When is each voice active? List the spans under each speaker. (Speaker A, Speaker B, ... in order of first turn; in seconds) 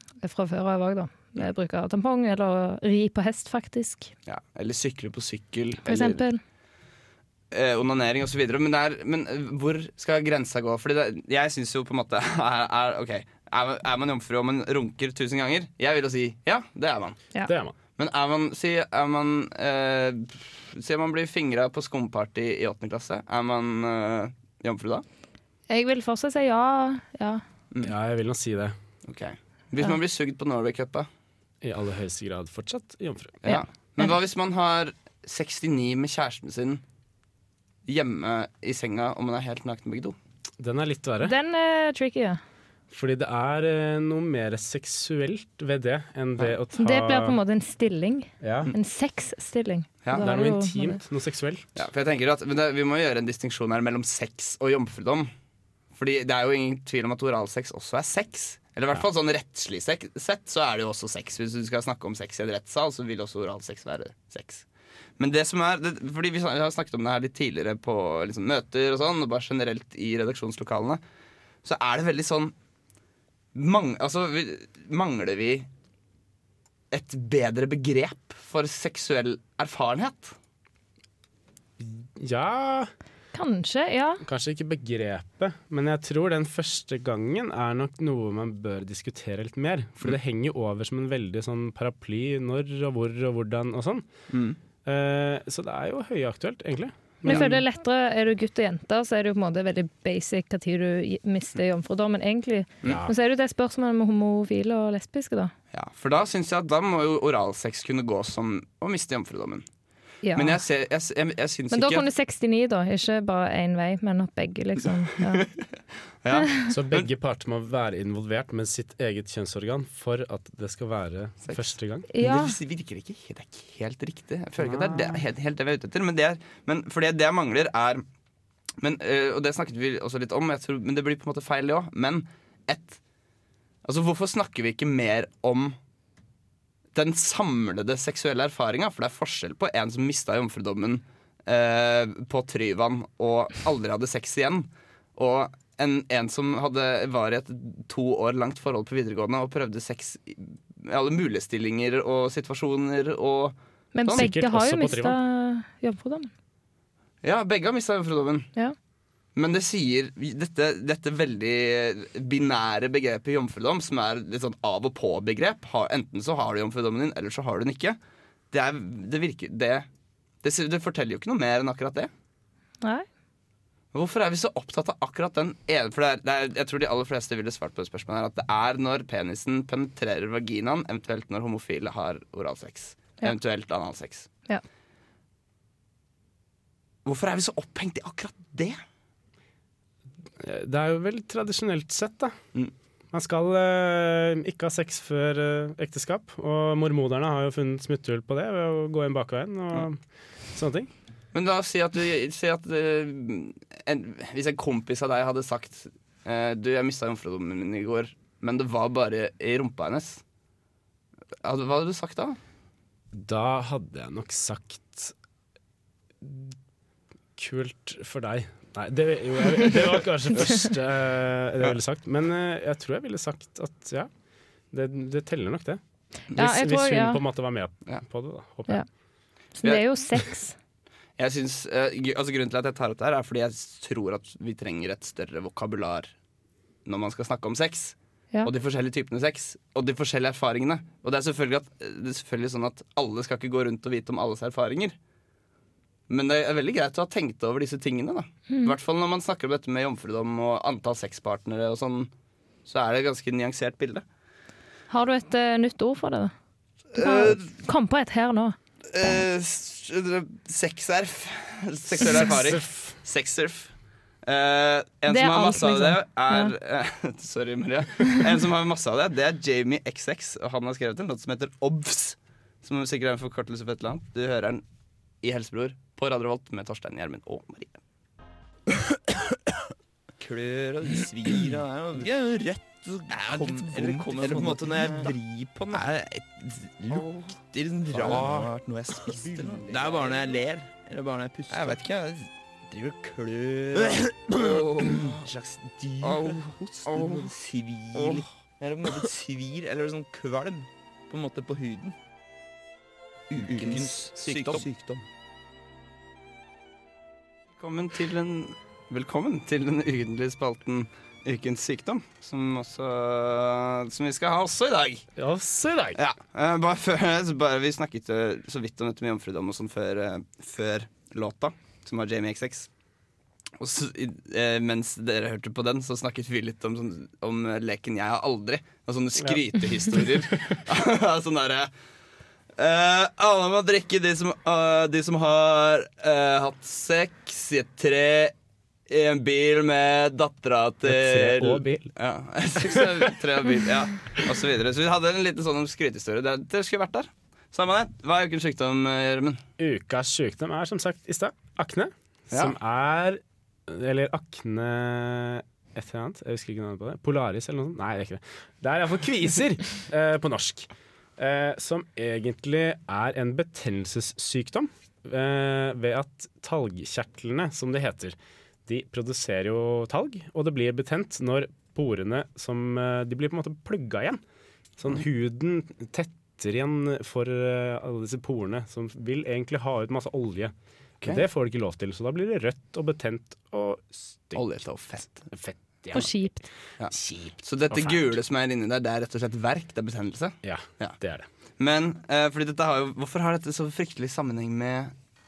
Speaker A: 0.2-4.1, 5.9-6.4, 25.7-27.4, 33.5-34.1, 41.2-42.4, 46.8-51.0, 83.3-84.2, 97.2-105.5, 110.2-110.6, 111.7-115.5, 122.1-122.5, 153.9-156.3, 226.3-227.2, 229.6-230.6, 254.9-256.3, 256.9-258.6, 265.1-266.5, 385.9-386.5
Speaker B: 4.3-6.2, 7.5-17.2, 18.0-25.1, 29.1-31.1, 33.4-36.8, 37.9-40.2, 51.8-55.3, 55.9-64.7, 65.2-71.0, 71.6-72.5, 73.5-75.7, 76.9-80.4, 105.7-109.7, 110.3-112.0, 116.2-117.1, 121.4-128.0, 128.8-133.0, 133.8-135.8, 136.9-154.2, 157.2-158.5, 159.4-168.0, 168.5-169.9, 170.4-172.1, 173.9-184.3, 187.1-188.8, 201.3-210.2, 211.4-212.4, 231.2-236.1, 236.9-245.0, 246.1-252.1, 252.7-254.0, 256.9-257.4, 258.9-263.7, 264.3-274.6, 275.2-277.8, 283.1-285.1, 287.9-288.5, 289.3-290.0, 291.5-291.8, 293.7-295.0, 296.0-297.3, 297.9-298.2, 303.6-304.7, 307.6-315.1, 316.0-322.7, 323.6-331.7, 332.6-338.3, 338.9-349.4, 384.4-385.3, 386.8-391.0, 391.6-394.9
Speaker C: 17.5-17.7, 27.8-28.8, 31.6-33.4, 40.6-41.3, 42.9-47.4, 48.4-48.7, 50.1-51.7, 81.8-82.9, 84.2-94.1, 94.9-97.6, 102.9-103.1, 116.7-122.1, 124.6-125.2, 154.1-155.2, 190.4-192.4, 193.1-200.0, 200.5-200.9, 213.1-215.1, 216.2-216.6, 217.4-224.1, 224.7-225.8, 226.3-228.8, 262.0-262.9, 315.2-316.0, 329.9-330.3, 340.9-341.9, 349.6-374.2, 374.8-380.5, 381.1-384.4, 385.3-386.3, 386.9-388.1, 390.4-391.3
Speaker D: 280.2-301.9, 303.3-305.0